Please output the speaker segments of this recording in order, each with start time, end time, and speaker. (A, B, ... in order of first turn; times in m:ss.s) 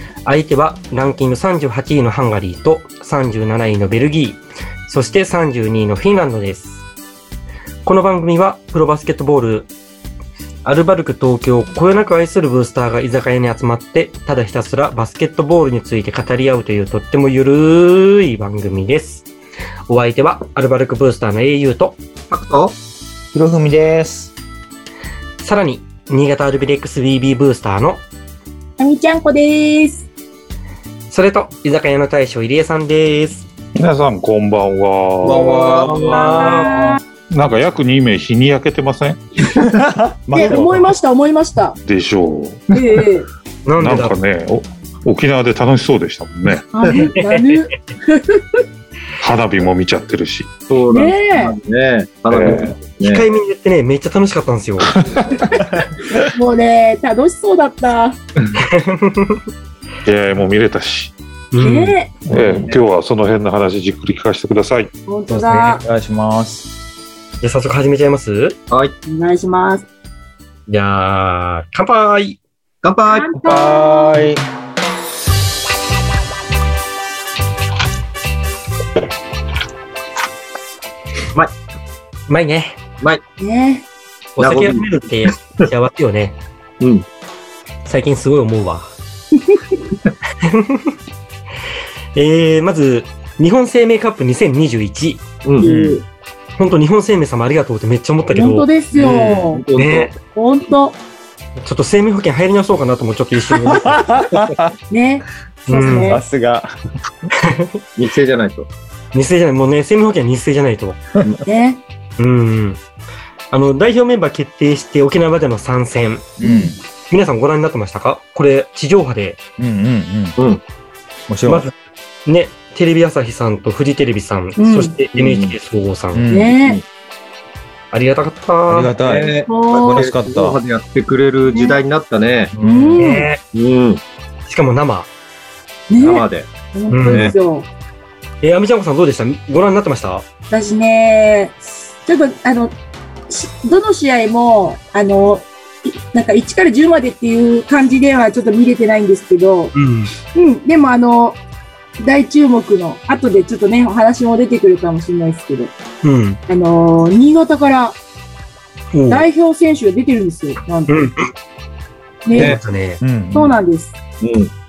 0:00.2-0:06.8 A
0:07.8-0:09.7 A
0:10.6-0:19.3 A
0:19.9-0:22.0 A
0:22.3-0:22.7 B
0:23.3-0:24.3 C
0:25.4-0:28.0 A
0:28.8-0:30.0 D
0:31.1-0:33.4 A
0:33.7-0:35.5 E
0:35.2-0:36.6 C
0:35.2-0:36.1 B
0:35.8-0:36.9 A
0:36.1-0:37.0 D
0:37.3-0:39.2 E
0:39.5-0:40.9 C
0:40.3-0:41.8 D
0:41.8-0:43.0 E
0:42.7-0:43.3 D
0:43.6-0:44.2 A
0:43.8-0:46.6 E
0:46.7-0:48.6 D
0:47.0-0:47.6 A
0:49.2-0:50.6 E
0:50.7-0:53.3 B
0:50.9-0:51.5 D
0:52.3-0:52.7 E
0:53.0-0:54.9 A
0:55.0-0:55.8 E
0:55.4-0:55.7 D
0:56.3-0:58.2 D
0:58.6-0:59.4 A
1:00.0-1:01.1 E
1:01.5-1:02.0 A
1:01.6-1:02.2 D
1:02.2-1:04.9 E
1:02.3-1:02.7 C
1:05.0-1:05.8 D
1:05.3-1:06.6 C
1:07.4-1:08.6 A
1:09.0-1:09.8 D
1:10.7-1:12.4 A
1:12.8-1:13.3 B
1:13.1-1:14.2 D
1:13.4-1:14.4 C
1:22.3-1:22.8 A
1:23.4-1:23.8 D
1:24.4-1:26.4 A
1:24.4-1:25.6 B
1:26.8-1:27.0 B
1:27.8-1:28.9 A
1:29.4-1:29.8 D
1:30.4-1:30.9 A
1:32.1-1:35.2 A
1:35.4-1:35.7 B
1:35.6-1:36.0 C
1:35.6-1:36.0 D
1:36.6-1:38.7 A
1:38.3-1:39.6 D
1:38.9-1:40.2 B
1:39.8-1:40.1 A
1:40.3-1:41.0 D
1:41.6-1:44.0 A
1:43.6-1:44.7 C
1:44.9-1:46.2 D
1:45.7-1:46.1 A
1:45.8-1:46.7 C
1:47.4-1:47.8 A
1:48.0-1:48.7 B
1:49.1-1:51.0 A
1:51.4-1:51.8 D
1:52.2-1:52.8 A
1:53.5-1:56.3 A
1:56.4-1:56.8 C
1:56.4-1:56.7 D
1:57.1-1:59.4 A
1:59.6-2:00.3 C
2:01.3-2:01.6 C
2:01.4-2:06.2 A
2:04.6-2:05.0 D
2:05.2-2:05.5 B
2:06.1-2:06.5 C
2:06.3-2:06.8 D
2:07.9-2:08.9 A
2:08.7-2:10.6 C
2:09.0-2:12.5 B
2:09.5-2:10.0 D
2:11.5-2:11.8 D
2:12.6-2:13.0 C
2:12.6-2:13.3 D
2:13.0-2:13.4 A
2:13.5-2:14.0 B
2:14.5-2:15.1 A
2:15.9-2:17.7 D
2:16.0-2:16.5 B
2:16.9-2:17.3 A
2:17.1-2:17.4 B
2:18.4-2:20.2 A
2:20.5-2:22.8 D
2:23.3-2:29.7 D
2:29.7-2:30.1 A
2:30.3-2:31.4 D
2:32.0-2:35.7 D
2:36.0-2:36.4 A
2:36.5-2:38.0 D
2:38.9-2:39.2 A
2:39.1-2:40.9 D
2:40.9-2:41.3 A
2:42.2-2:42.6 D
2:42.4-2:43.0 A
2:43.0-2:43.5 C
2:43.3-2:43.9 D
2:44.2-2:44.5 B